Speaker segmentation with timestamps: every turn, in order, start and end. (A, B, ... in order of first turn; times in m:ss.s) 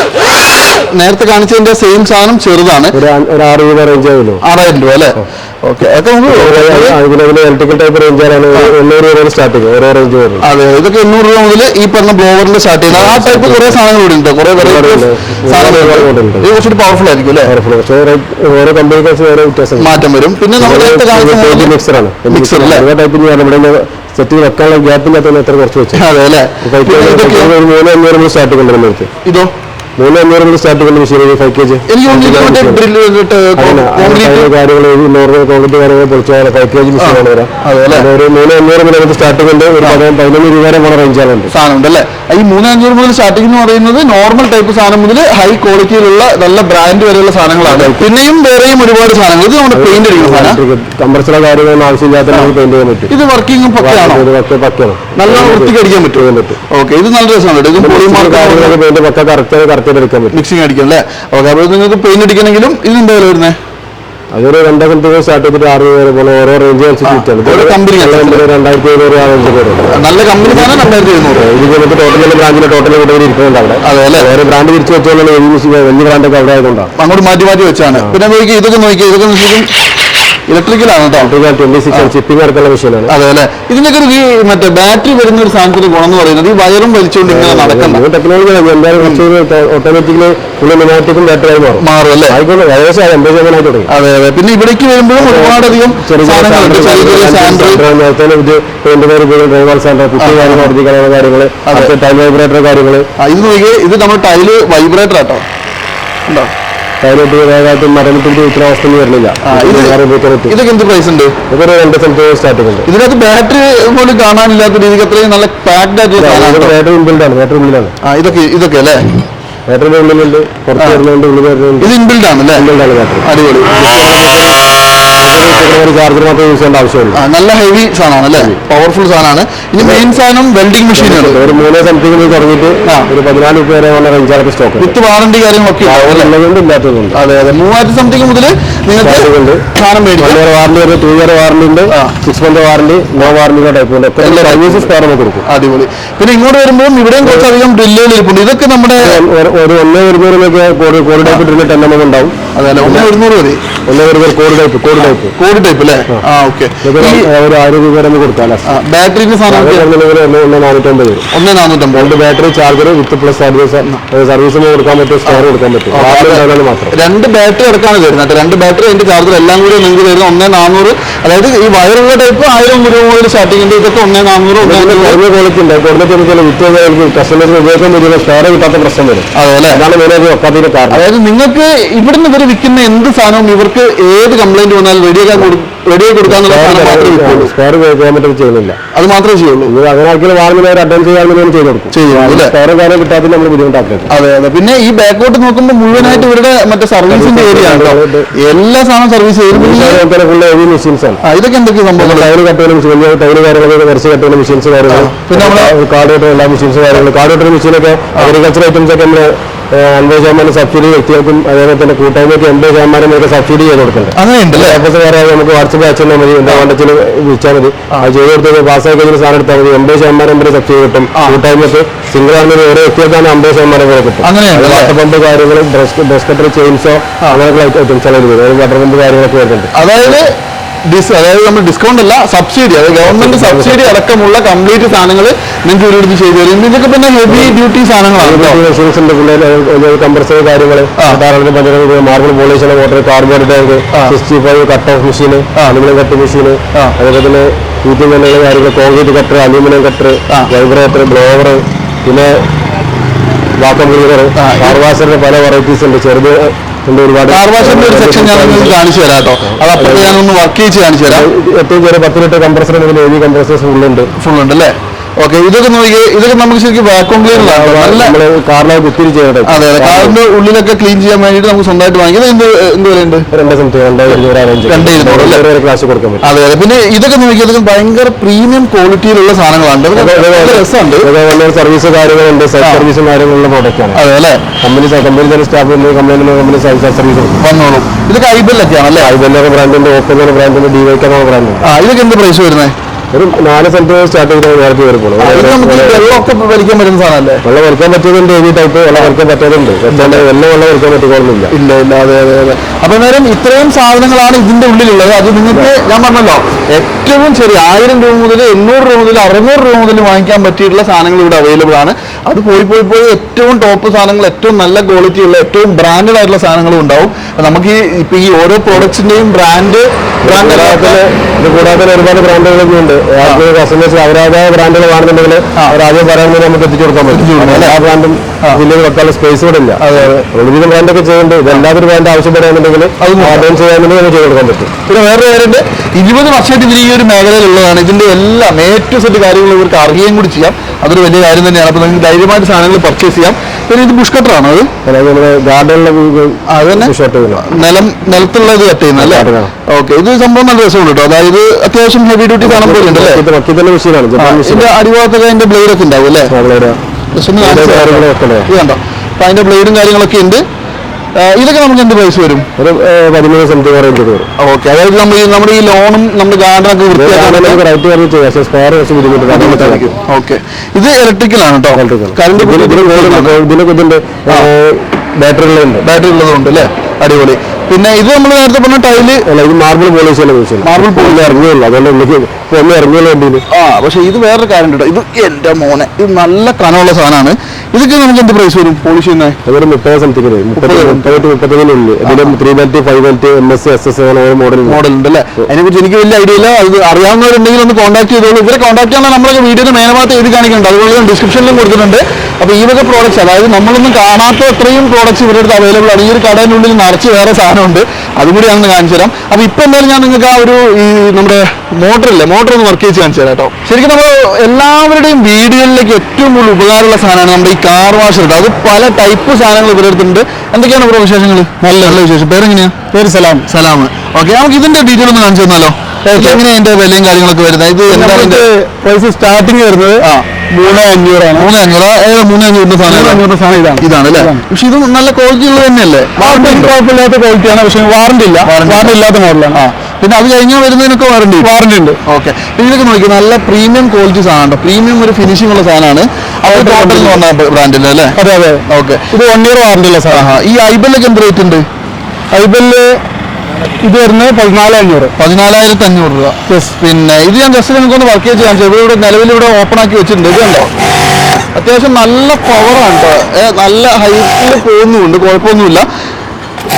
0:00.9-0:03.0 A
0:02.9-0:04.4 B
0:04.4-0:07.0 A
0:06.2-0:10.5 B
0:10.4-0:17.5 A
0:12.9-0:13.8 B
0:14.6-0:16.5 B
0:17.4-0:20.0 B
0:19.8-0:21.7 A
0:20.6-0:26.0 B
0:22.3-0:22.9 A
0:25.9-0:27.5 A
0:26.6-0:29.1 B
0:29.2-0:29.5 A
0:30.0-0:32.9 B
0:31.9-0:34.5 A
0:33.6-0:41.5 B
0:37.0-0:38.1 A
0:41.5-0:50.6 A
0:47.6-0:48.1 B
0:49.7-0:53.1 B
0:53.1-0:54.3 A
0:53.8-0:56.6 B
0:55.2-0:58.8 A
0:57.8-1:00.4 B
1:00.3-1:03.6 A
1:04.3-1:16.9 B
1:07.0-1:08.4 A
1:09.9-1:11.5 A
1:13.8-1:14.3 A
1:17.0-1:19.7 A
1:20.5-1:21.3 A
1:21.2-1:23.1 B
1:23.1-1:28.0 A
1:27.3-1:33.9 B
1:29.0-1:29.2 A
1:31.8-1:32.4 A
1:33.9-1:37.8 A
1:35.2-1:43.1 B
1:40.2-1:40.7 A
1:41.6-1:41.9 A
1:43.2-1:45.4 A
1:47.0-1:50.6 B
1:49.4-1:51.4 A
1:51.5-1:52.9 B
1:52.9-1:56.7 A
1:56.2-1:58.0 B
1:58.0-1:59.1 A
1:59.7-2:01.9 B
2:00.8-2:01.0 A
2:01.8-2:02.7 A
2:02.6-2:04.6 B
2:03.2-2:04.0 A
2:05.2-2:07.2 B
2:07.1-2:11.4 A
2:09.8-2:10.1 B
2:10.9-2:15.0 B
2:14.8-2:16.3 A
2:15.8-2:17.2 B
2:17.1-2:20.4 A
2:19.0-2:25.5 B
2:24.2-2:24.9 A
2:25.4-2:29.2 A
2:27.2-2:27.5 B
2:29.0-2:33.1 B
2:32.6-2:33.6 A
2:33.9-2:35.4 B
2:35.0-2:37.3 A
2:36.8-2:38.7 B
2:38.7-2:39.9 A
2:39.5-2:41.2 B
2:41.3-2:42.2 A
2:41.9-2:47.0 B
2:45.3-2:55.2 A
2:54.6-3:01.0 B
2:59.3-2:59.8 A
3:00.9-3:07.5 A
3:06.2-3:08.8 B
3:08.9-3:09.7 A
3:09.7-3:14.1 B
3:11.9-3:12.5 A
3:14.1-3:20.0 A
3:15.9-3:16.3 B
3:17.1-3:18.3 B
3:19.5-3:21.2 B
3:21.2-3:22.3 A
3:22.0-3:49.7 B
3:24.9-3:25.8 A
3:34.2-3:34.8 A
3:41.1-3:41.4 A
3:44.2-3:45.0 A
3:49.7-3:50.3 A
3:50.9-3:58.6 A
3:53.0-3:54.0 B
3:57.3-3:57.6 B
3:58.2-4:12.5 B
4:03.9-4:04.2 A
4:13.6-4:18.8 B
4:14.4-4:14.8 A
4:17.3-4:21.3 A
4:19.4-4:20.2 B
4:21.1-4:24.1 B
4:24.2-4:28.2 A
4:27.3-4:30.2 B
4:29.5-4:33.3 A
4:33.3-4:36.3 B
4:34.7-4:35.5 A
4:36.2-4:41.1 A
4:40.0-4:44.0 B
4:42.6-4:42.9 A
4:43.9-4:44.4 A
4:44.6-4:47.4 B
4:47.4-4:49.1 A
4:49.0-4:51.7 B
4:51.6-4:52.7 A
4:53.1-4:56.3 B
4:55.2-4:57.4 A
4:57.4-5:01.5 B
4:59.9-5:00.2 A
5:01.5-5:21.0 A
5:20.2-5:34.7 B
5:27.1-5:27.8 A
5:29.8-5:30.3 A
5:33.0-5:33.5 A
5:34.9-5:44.7 A
5:44.8-5:47.4 B
5:46.5-5:53.2 A
5:49.0-5:49.5 B
5:52.4-5:54.7 B
5:54.2-5:56.3 A
5:56.3-5:56.8 B
5:57.2-6:00.4 A
5:57.4-5:58.5 B
6:01.2-6:02.5 A
6:02.6-6:04.3 B
6:04.4-6:07.6 A
6:06.9-6:09.9 B
6:09.3-6:13.4 A
6:11.7-6:15.8 B
6:15.8-6:19.2 A
6:19.3-6:23.4 B
6:20.6-6:21.4 A
6:23.5-6:29.4 A
6:29.4-6:34.8 B
6:30.6-6:31.2 A
6:32.0-6:32.4 A
6:34.7-7:02.8 A
7:01.6-7:02.0 C
7:02.9-7:03.5 C
7:03.5-7:08.4 A
7:06.1-7:06.4 C
7:07.9-7:11.5 C
7:11.4-7:13.2 A
7:12.9-7:14.4 C
7:13.8-7:16.7 A
7:16.2-7:19.6 C
7:18.4-7:18.9 A
7:19.5-7:21.5 A
7:21.4-7:22.0 C
7:22.0-7:29.0 A
7:26.5-7:27.2 C
7:28.2-7:30.4 C
7:30.1-7:31.7 A
7:32.3-7:33.0 C
7:33.8-7:35.1 C
7:35.2-7:40.7 A
7:36.5-7:36.8 C
7:41.6-7:45.9 A